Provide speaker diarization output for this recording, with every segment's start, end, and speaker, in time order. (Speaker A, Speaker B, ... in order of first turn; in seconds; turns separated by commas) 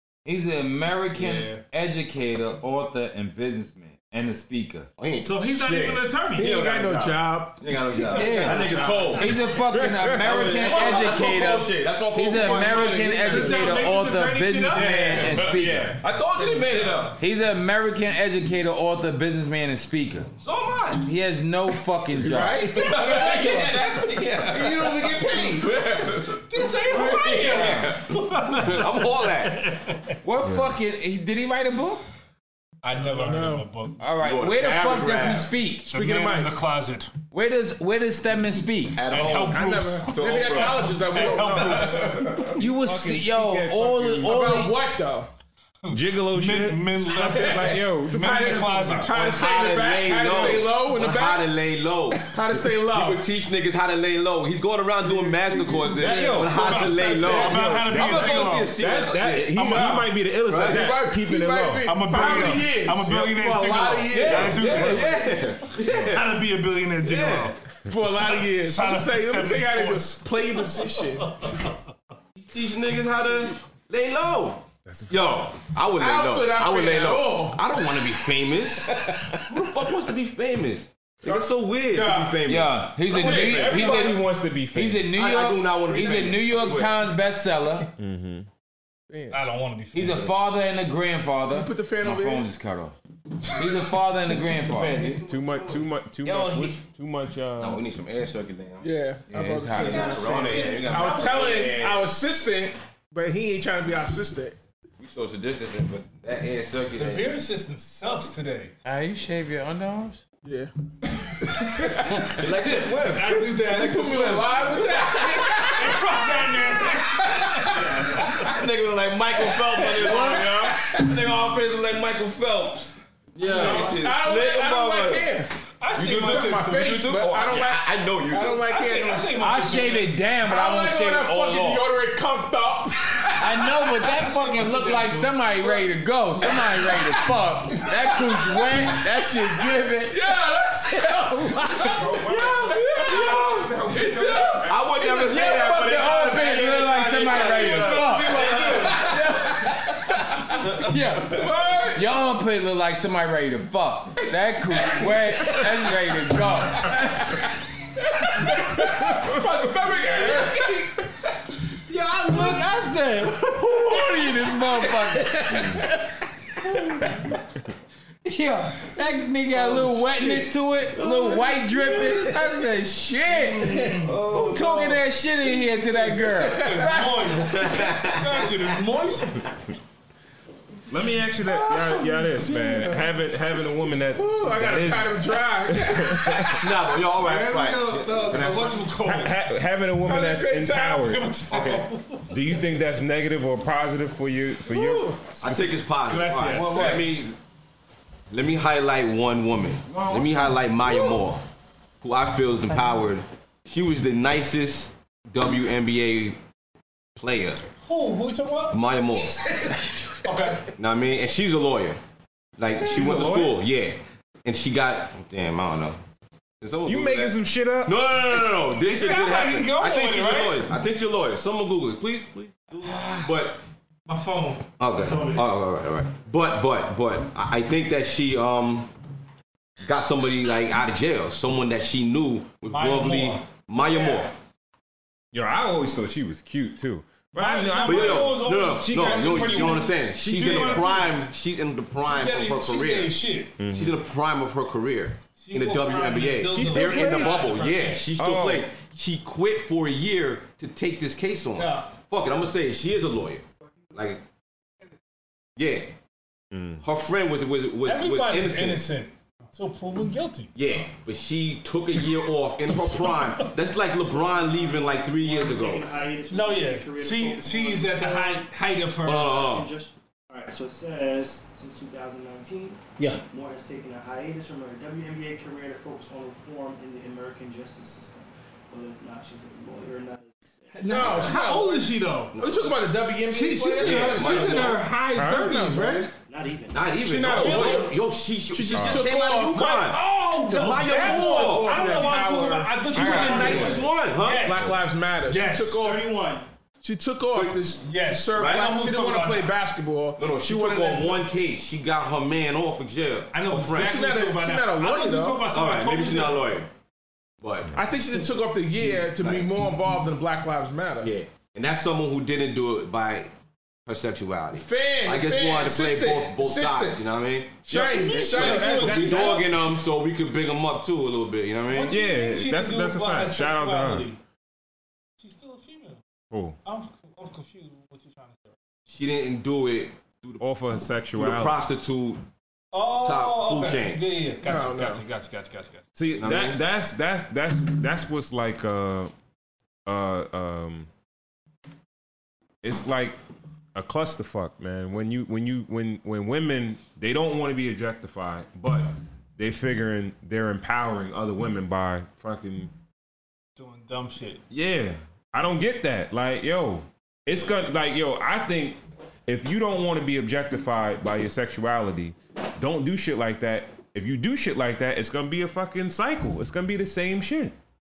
Speaker A: 0.2-4.9, Speaker B: 1.2-1.6, Speaker B: 5.0-9.4, Speaker C: 5.2-6.6, Speaker D: 6.3-9.3, Speaker A: 8.1-16.0, Speaker E: 9.7-10.4, Speaker B: 10.1-13.3, Speaker D: 12.3-13.9, Speaker C: 13.2-15.2, Speaker B: 14.7-17.2, Speaker A: 17.2-20.3, Speaker B: 20.4-21.1, Speaker A: 21.0-22.9, Speaker D: 22.1-25.8, Speaker B: 22.7-29.7, Speaker C: 26.3-30.1, Speaker A: 30.2-32.0, Speaker E: 30.4-30.7, Speaker C: 32.8-34.0, Speaker D: 33.1-33.7, Speaker A: 34.0-35.9, Speaker B: 34.2-35.5, Speaker D: 35.9-36.5, Speaker C: 35.9-37.1, Speaker A: 37.3-39.0, Speaker B: 38.9-42.2, Speaker C: 39.1-42.5, Speaker D: 39.2-42.6, Speaker A: 42.6-44.8, Speaker E: 42.6-44.4, Speaker D: 44.2-45.3, Speaker C: 45.9-49.1, Speaker E: 45.9-48.8, Speaker D: 47.5-51.5, Speaker B: 49.0-60.9, Speaker D: 52.1-53.2, Speaker D: 55.0-57.0, Speaker E: 56.0-62.5, Speaker C: 56.4-58.8, Speaker D: 59.6-65.0, Speaker C: 61.9-65.4, Speaker B: 64.1-66.3, Speaker E: 64.5-65.0, Speaker E: 65.9-66.1, Speaker C: 66.0-71.8, Speaker B: 67.0-67.5, Speaker D: 67.8-71.7, Speaker B: 72.4-84.2, Speaker E: 74.9-75.2, Speaker D: 76.0-77.8, Speaker D: 78.9-79.4, Speaker D: 81.2-82.5, Speaker A: 82.5-87.9, Speaker E: 83.2-85.2, Speaker D: 83.2-83.6, Speaker B: 85.1-87.1, Speaker E: 88.0-88.5, Speaker D: 89.1-89.4, Speaker C: 89.3-90.3, Speaker A: 89.9-95.1, Speaker D: 91.5-92.5, Speaker B: 94.4-95.8, Speaker E: 95.2-97.8, Speaker A: 96.3-96.8, Speaker B: 97.6-98.9, Speaker D: 98.8-104.6, Speaker A: 99.3-100.2, Speaker B: 99.7-102.1, Speaker C: 100.0-101.6, Speaker B: 105.0-107.4, Speaker C: 107.0-108.7, Speaker A: 108.8-110.2, Speaker D: 110.4-112.3, Speaker C: 111.8-118.5, Speaker B: 112.0-113.4, Speaker D: 113.3-118.4, Speaker B: 114.8-115.6, Speaker B: 118.0-125.3, Speaker D: 119.4-121.2, Speaker A: 123.4-124.0, Speaker D: 123.4-129.4, Speaker C: 123.4-123.9, Speaker C: 125.8-127.0, Speaker B: 126.0-128.7, Speaker C: 128.7-130.2, Speaker A: 129.4-131.9, Speaker D: 130.4-134.1, Speaker A: 133.4-140.2, Speaker C: 134.0-135.8, Speaker D: 136.4-147.5, Speaker A: 140.8-142.1, Speaker E: 141.8-144.8, Speaker B: 144.6-149.4, Speaker A: 145.3-157.5, Speaker C: 147.5-149.2, Speaker D: 148.5-150.7, Speaker D: 151.2-152.1, Speaker D: 154.8-155.9, Speaker D: 156.8-157.5, Speaker D: 158.1-161.1, Speaker A: 158.4-159.0, Speaker A: 161.9-166.0, Speaker D: 162.3-162.6, Speaker D: 163.4-166.0, Speaker A: 166.6-167.2, Speaker D: 166.7-167.2, Speaker A: 168.2-177.3, Speaker D: 169.8-170.4, Speaker B: 171.0-172.2, Speaker D: 173.6-174.1, Speaker B: 174.0-175.0, Speaker D: 176.2-177.2, Speaker C: 176.5-179.5, Speaker B: 177.3-178.6, Speaker E: 180.9-186.7, Speaker D: 181.4-183.1, Speaker D: 184.1-186.7, Speaker B: 186.5-188.9, Speaker C: 187.1-189.4, Speaker E: 189.0-191.3, Speaker D: 190.0-191.1, Speaker C: 191.0-192.4, Speaker B: 191.5-191.9, Speaker E: 192.3-195.8, Speaker D: 194.7-195.3, Speaker B: 195.4-197.4, Speaker C: 196.1-197.2, Speaker A: 196.4-197.3, Speaker B: 198.3-201.4, Speaker A: 199.9-200.5, Speaker D: 200.8-201.2, Speaker B: 202.0-206.4, Speaker B: 207.2-207.7, Speaker C: 207.8-208.8, Speaker B: 208.7-209.5, Speaker D: 209.2-210.7, Speaker C: 210.2-210.6, Speaker B: 210.8-212.0, Speaker B: 212.6-216.0, Speaker E: 212.7-213.7, Speaker B: 216.6-223.6, Speaker E: 216.8-218.2, Speaker C: 218.7-220.7, Speaker C: 224.1-225.5, Speaker B: 224.8-228.9, Speaker B: 229.8-234.3, Speaker C: 232.7-234.3, Speaker E: 235.3-240.8, Speaker C: 237.4-241.3, Speaker B: 237.8-243.1, Speaker C: 242.0-243.6, Speaker E: 243.6-244.0, Speaker B: 243.7-254.2, Speaker C: 245.4-248.2, Speaker E: 246.5-247.5, Speaker E: 248.2-248.7, Speaker B: 255.6-255.9, Speaker E: 256.5-256.8, Speaker B: 256.8-258.8, Speaker C: 257.9-260.5, Speaker B: 260.6-266.0, Speaker C: 262.2-263.5, Speaker F: 264.5-268.5, Speaker C: 266.3-269.3, Speaker B: 269.0-269.7, Speaker F: 269.2-281.0, Speaker C: 280.8-282.4, Speaker D: 280.9-286.1, Speaker B: 280.9-281.4, Speaker B: 282.3-282.8, Speaker C: 283.3-286.1, Speaker B: 283.8-284.8, Speaker E: 285.1-285.6, Speaker F: 286.3-287.0, Speaker B: 286.7-290.0, Speaker D: 287.0-287.9, Speaker C: 287.3-287.9, Speaker D: 288.5-293.8, Speaker E: 288.7-289.1, Speaker C: 289.9-294.8, Speaker B: 290.5-292.2, Speaker B: 292.9-294.8, Speaker A: 292.9-293.8, Speaker F: 293.4-293.8, Speaker D: 294.4-296.1, Speaker C: 295.3-295.8, Speaker F: 295.8-296.5, Speaker D: 296.8-301.3, Speaker C: 297.8-299.6, Speaker B: 298.4-298.8, Speaker B: 300.2-304.0, Speaker C: 303.3-306.6, Speaker D: 303.7-305.4, Speaker B: 305.5-306.7, Speaker B: 307.4-307.8, Speaker D: 307.8-311.1, Speaker B: 308.7-309.5, Speaker B: 311.0-313.3, Speaker B: 313.9-322.0, Speaker D: 314.5-317.0, Speaker D: 317.6-319.4, Speaker E: 317.7-319.6, Speaker C: 318.1-319.5, Speaker C: 321.7-324.2, Speaker E: 321.9-324.1, Speaker C: 325.2-326.0, Speaker E: 326.3-326.6, Speaker C: 326.6-328.6, Speaker B: 328.9-330.4, Speaker E: 330.4-331.6, Speaker B: 331.2-332.2, Speaker C: 332.7-335.9, Speaker B: 333.0-334.0, Speaker D: 334.4-335.0, Speaker E: 336.0-339.1, Speaker B: 336.2-336.6, Speaker E: 339.9-340.9, Speaker E: 342.6-343.2, Speaker E: 343.8-352.7, Speaker C: 353.6-354.4, Speaker E: 354.5-367.6